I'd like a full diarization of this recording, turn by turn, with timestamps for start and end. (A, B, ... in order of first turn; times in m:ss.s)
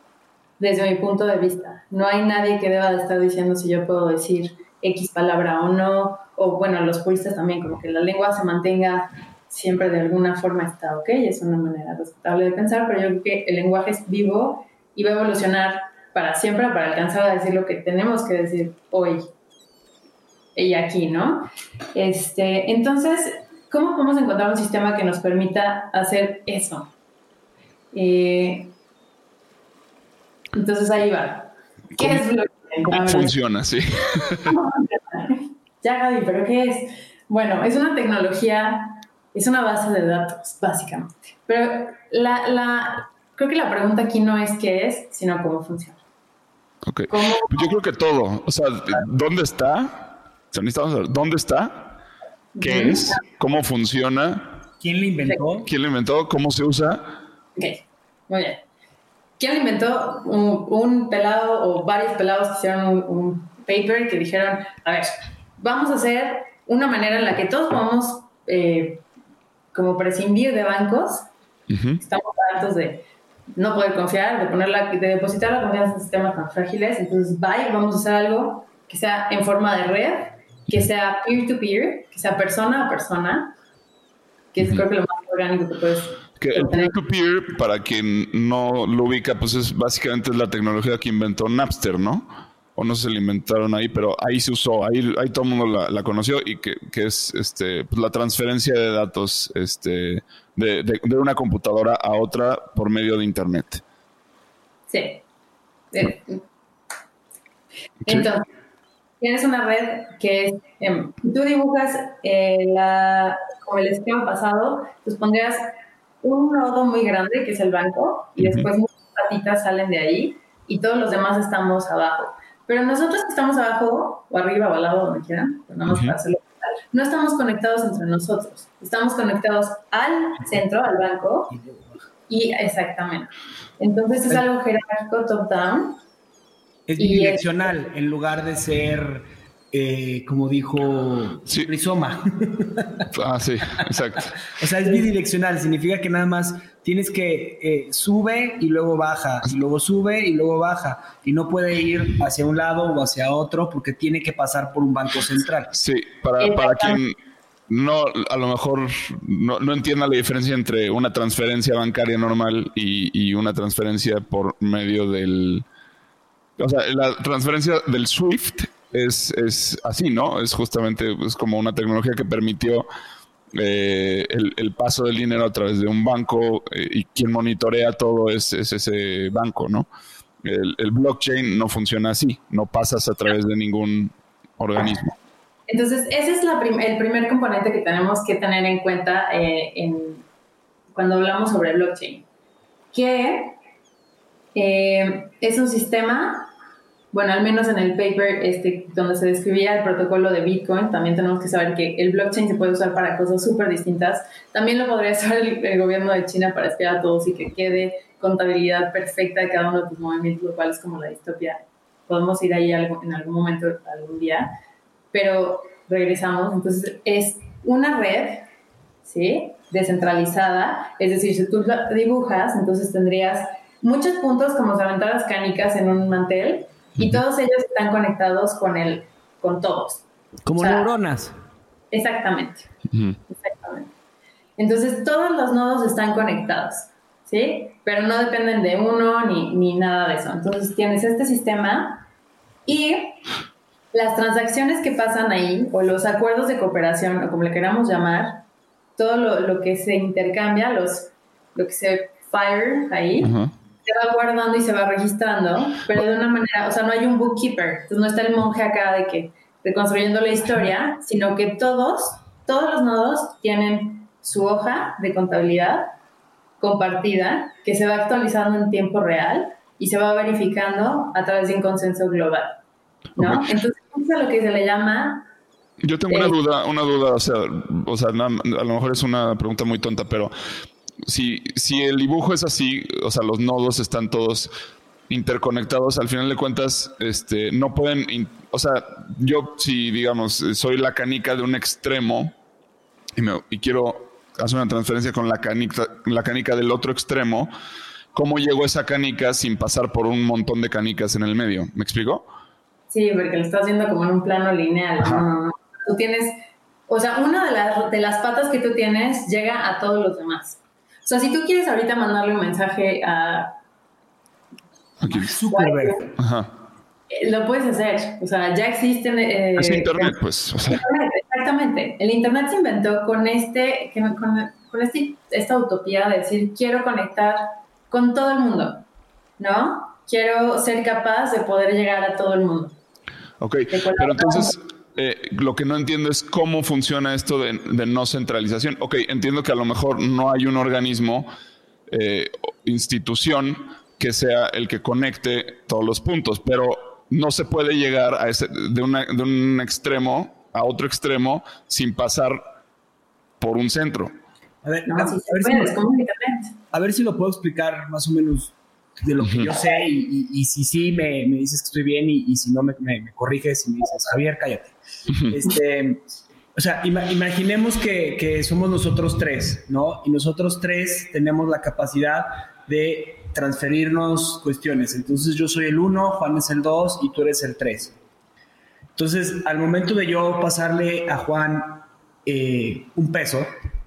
0:00.6-0:19.2 A
0:20.6-0:26.9 A
0:27.9-0:28.7 A
0:30.5-0:33.3 A
0:32.0-0:32.2 B
0:32.9-0:34.5 B
0:34.4-0:46.0 A
0:46.8-0:52.0 B
0:47.1-0:47.7 A
0:52.5-0:53.2 A
0:52.6-0:54.6 B
0:54.8-0:55.7 C
0:55.6-0:57.1 B
0:57.6-0:58.6 A
0:59.4-1:09.0 A
1:09.7-1:11.3 A
1:11.7-1:12.0 B
1:12.0-1:13.0 A
1:13.5-1:23.5 A
1:24.5-1:26.9 A
1:26.4-1:43.8 B
1:44.9-1:45.2 A
1:45.9-1:46.4 A
1:48.0-1:48.5 A
1:49.2-1:55.7 A
1:56.2-2:11.5 A
1:58.4-1:58.7 B
2:05.9-2:06.2 B
2:12.3-2:16.0 A
2:16.9-2:23.1 C
2:17.0-2:17.6 A
2:23.1-2:24.4 B
2:24.6-2:35.7 C
2:35.7-2:37.1 B
2:36.4-2:37.0 A
2:37.7-2:45.6 B
2:46.6-2:52.9 B
2:53.5-2:59.9 B
3:00.4-3:05.1 B
3:05.7-3:10.2 A
3:10.9-3:12.2 A
3:12.9-3:13.6 A
3:14.5-3:16.5 A
3:17.1-3:34.5 A
3:35.1-3:38.5 A
3:39.0-3:50.0 A
3:50.4-3:51.4 C
3:50.6-3:50.9 A
3:51.9-3:52.7 A
3:52.9-3:53.2 B
3:53.3-3:53.9 A
3:54.6-4:02.1 A
4:02.6-4:03.2 A
4:03.9-4:08.4 A
4:09.0-4:13.3 A
4:13.2-4:13.5 B
4:13.8-4:25.9 A
4:26.6-4:32.6 A
4:33.2-4:35.3 A
4:33.2-4:33.4 B
4:35.8-4:40.3 B
4:36.1-4:36.3 A
4:41.0-4:44.5 B
4:45.1-4:52.3 B
4:53.2-4:57.5 B
4:58.1-5:02.2 B
5:02.9-5:13.5 A
5:15.0-5:15.3 B
5:15.1-5:16.0 C
5:15.5-5:16.1 A
5:16.2-5:16.5 B
5:17.1-5:20.2 A
5:19.6-5:20.8 B
5:20.7-5:28.9 A
5:29.4-5:32.8 A
5:33.4-5:41.3 B
5:33.7-5:34.6 A
5:41.9-5:52.4 B
5:53.4-5:54.1 B
5:54.6-5:55.8 C
5:54.8-5:56.5 A
5:56.7-6:04.7 C
5:59.2-5:59.5 B
6:05.3-6:17.9 C
6:18.9-6:23.5 C